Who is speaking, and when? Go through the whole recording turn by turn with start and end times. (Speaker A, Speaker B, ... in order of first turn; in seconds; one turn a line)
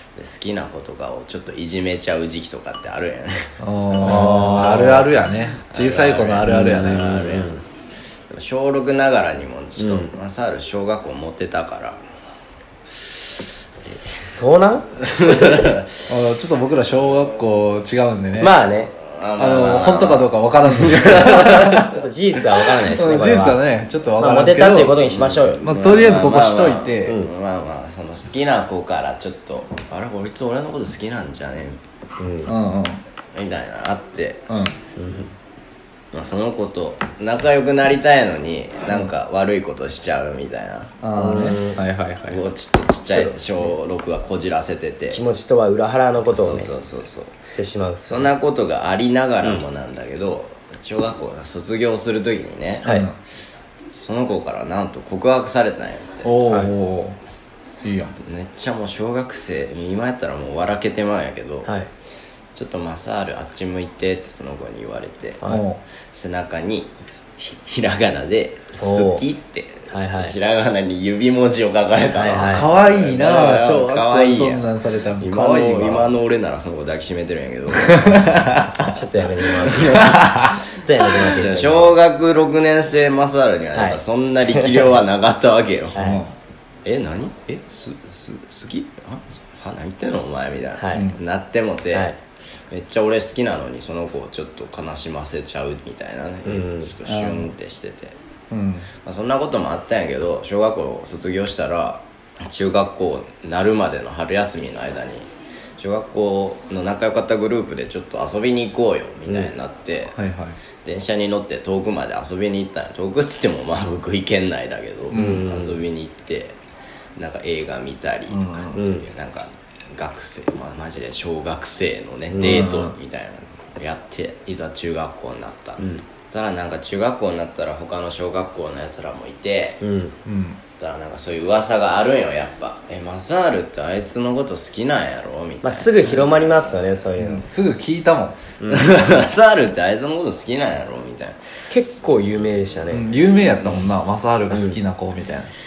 Speaker A: 0.2-5.1
Speaker B: 3.6-7.2
Speaker C: 4.0-5.1
Speaker A: 5.7-7.7
Speaker C: 6.5-7.6
Speaker A: 8.3-12.0
Speaker C: 9.8-10.1
Speaker A: 13.9-14.3
Speaker C: 14.2-15.5
Speaker A: 15.1-15.9
Speaker B: 16.1-18.5
Speaker C: 18.4-18.9
Speaker A: 19.0-20.3
Speaker B: 19.4-22.0
Speaker C: 21.1-23.6
Speaker B: 22.9-25.0
Speaker C: 24.2-25.6
Speaker A: 24.9-31.8
Speaker B: 25.6-27.2
Speaker C: 32.2-32.5
Speaker B: 32.5-33.0
Speaker A: 33.3-34.4
Speaker B: 34.5-34.8
Speaker C: 35.0-35.3
Speaker A: 36.1-41.4
Speaker B: 41.0-42.4
Speaker C: 41.1-41.8
Speaker A: 42.3-45.2
Speaker C: 43.1-43.7
Speaker C: 45.1-46.7
Speaker A: 46.3-47.4
Speaker C: 47.5-48.3
Speaker A: 48.1-52.9
Speaker B: 52.8-53.2
Speaker A: 53.9-56.4
Speaker B: 56.2-57.2
Speaker B: 57.8-58.2
Speaker A: 58.2-61.7
Speaker C: 61.6-61.9
Speaker A: 62.6-65.4
Speaker B: 65.5-65.8
Speaker A: 66.0-78.3
Speaker C: 68.8-69.2
Speaker C: 69.9-70.4
Speaker C: 72.1-72.7
Speaker B: 72.5-76.1
Speaker B: 78.0-78.8
Speaker C: 78.9-82.0
Speaker A: 79.6-80.2
Speaker B: 79.8-80.5
Speaker A: 81.3-86.1
Speaker C: 83.7-84.0
Speaker C: 84.5-84.8
Speaker C: 86.0-86.2
Speaker B: 86.0-86.3
Speaker A: 86.8-92.2
Speaker C: 90.8-91.1
Speaker A: 92.7-98.2
Speaker C: 96.5-96.9
Speaker B: 97.0-97.5
Speaker B: 98.5-98.9
Speaker A: 99.0-110.2
Speaker B: 110.1-110.6
Speaker A: 110.8-116.6
Speaker B: 115.1-115.5
Speaker C: 115.1-115.8
Speaker A: 117.2-129.8
Speaker B: 118.3-118.8
Speaker C: 118.8-119.0
Speaker C: 122.3-122.7
Speaker B: 122.4-123.0
Speaker C: 129.8-130.2
Speaker B: 130.3-130.6
Speaker A: 130.8-136.8
Speaker C: 135.6-137.5
Speaker B: 137.2-138.4
Speaker C: 138.6-138.9
Speaker A: 138.7-143.9
Speaker C: 141.7-143.1
Speaker B: 142.9-145.5
Speaker C: 144.5-144.8